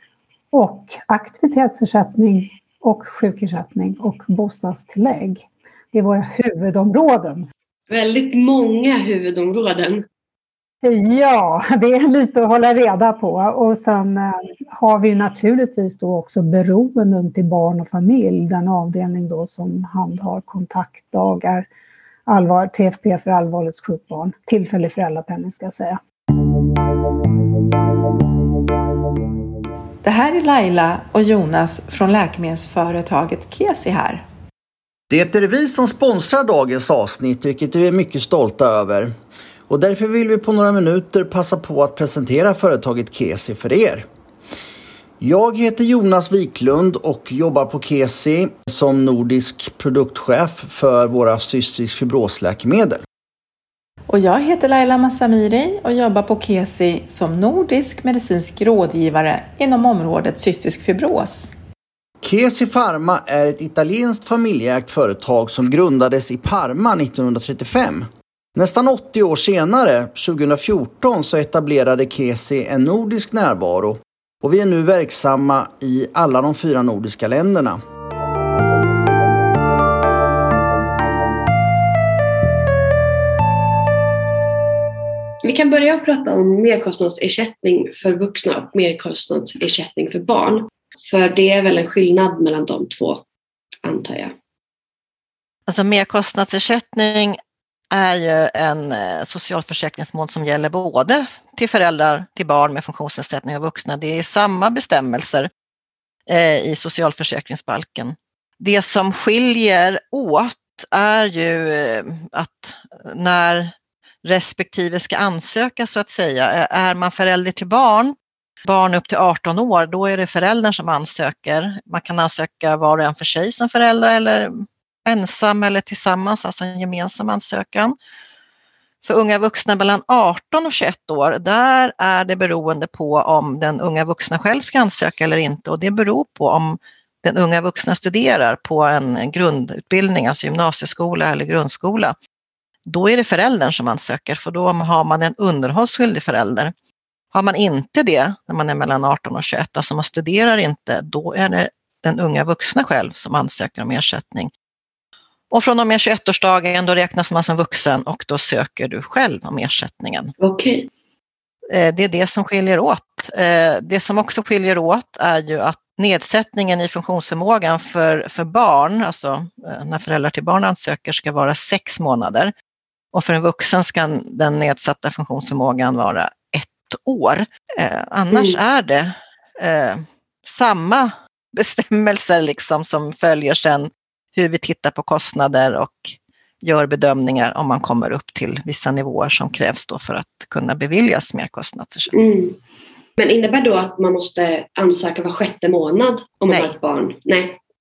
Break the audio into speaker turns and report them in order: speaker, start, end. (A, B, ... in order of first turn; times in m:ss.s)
0:00.5-0:07.4 A
0:07.9-0:10.0 B
0:10.8-0:21.7 A
0:22.3-0:26.0 A
0:30.0-0:34.2 C
0:35.1-0:39.1 D
0:39.7-0:44.0 D
0:45.2-0:53.0 D
0:54.1-1:01.5 C
1:02.2-1:17.8 D
1:25.4-1:33.2 B
1:33.8-1:34.3 B
1:35.7-1:37.4 E
1:37.9-1:45.5 E
1:46.3-1:53.7 E
1:54.2-2:07.9 E
2:09.0-2:22.1 E
2:22.8-2:26.7 E
2:27.3-2:34.5 E
2:35.5-2:40.3 E
2:40.4-2:40.9 B
2:41.7-2:52.5 E
2:53.1-3:12.1 E
2:58.3-2:58.6 B
3:12.1-3:12.6 B
3:13.2-3:17.6 B
3:16.5-3:16.7 E